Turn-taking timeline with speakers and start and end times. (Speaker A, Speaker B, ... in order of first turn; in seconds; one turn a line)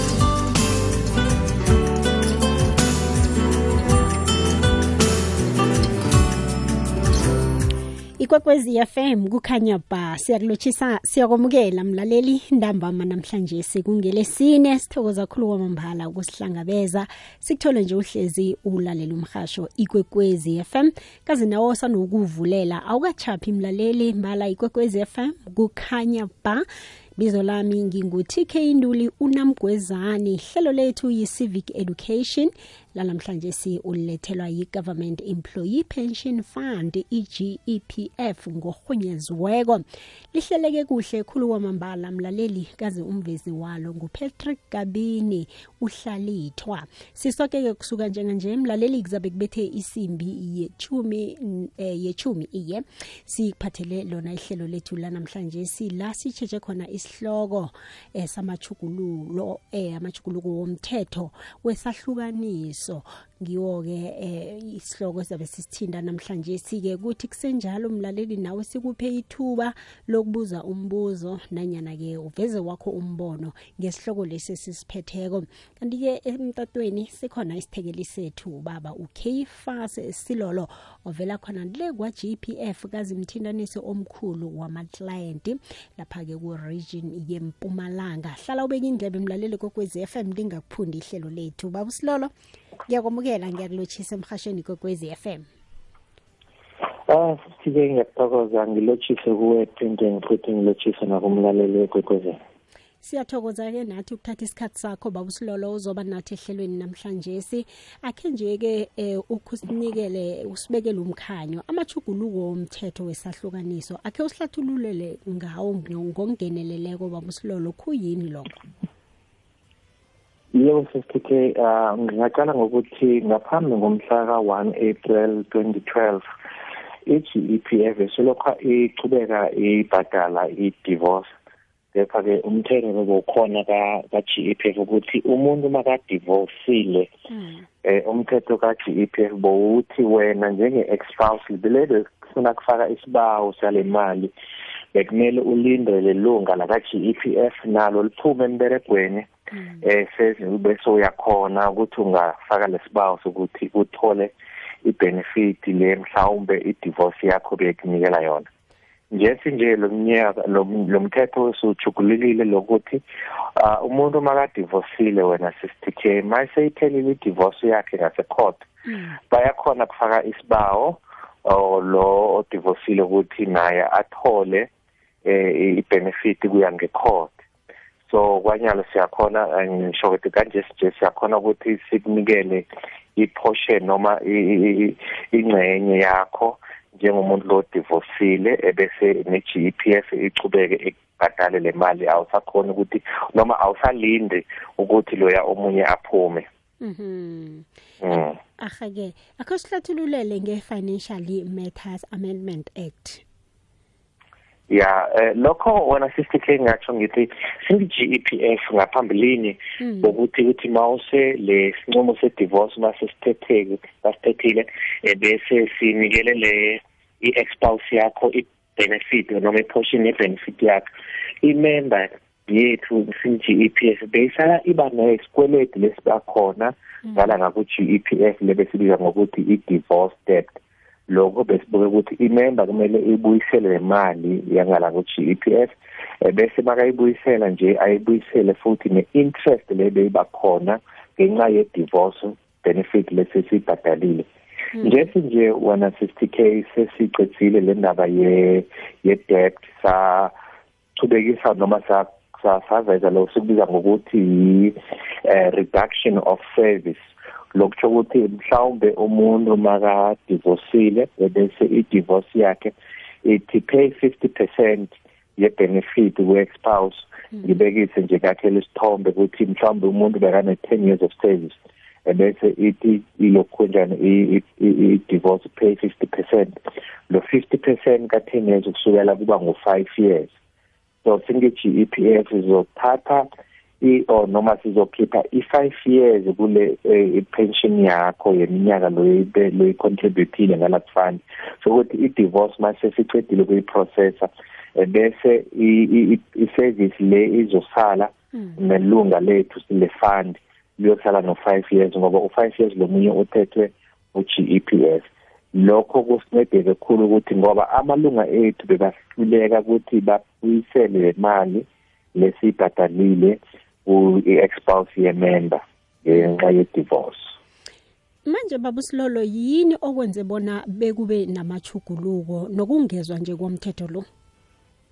Speaker A: 8.2-26.6
Speaker A: 27.2-92.3
Speaker A: 92.9-95.5
Speaker B: 97.1-102.4
Speaker A: 103.0-118.5
Speaker B: 120.5-126.2
Speaker B: 127.1-131.3
Speaker B: 131.9-137.1
Speaker A: 137.3-137.7
Speaker B: 137.8-144.3
Speaker B: 144.9-149.3
Speaker A: 149.5-149.8
Speaker B: 149.8-154.3
Speaker B: 154.8-158.5
Speaker B: 159.1-163.0
Speaker B: 163.6-168.7
Speaker A: 168.9-169.2
Speaker B: 169.3-174.7
Speaker B: 175.2-177.4
Speaker B: 178.1-196.5
Speaker A: 196.8-197.7
Speaker B: 198.0-198.3
Speaker A: 198.6-203.2
Speaker B: 204.7-220.8
Speaker A: 209.8-210.1
Speaker B: 221.4-230.6
Speaker B: 231.1-250.3
Speaker B: 251.0-280.3
Speaker B: 281.0-283.3
Speaker B: 283.8-317.3
Speaker A: 318.2-324.1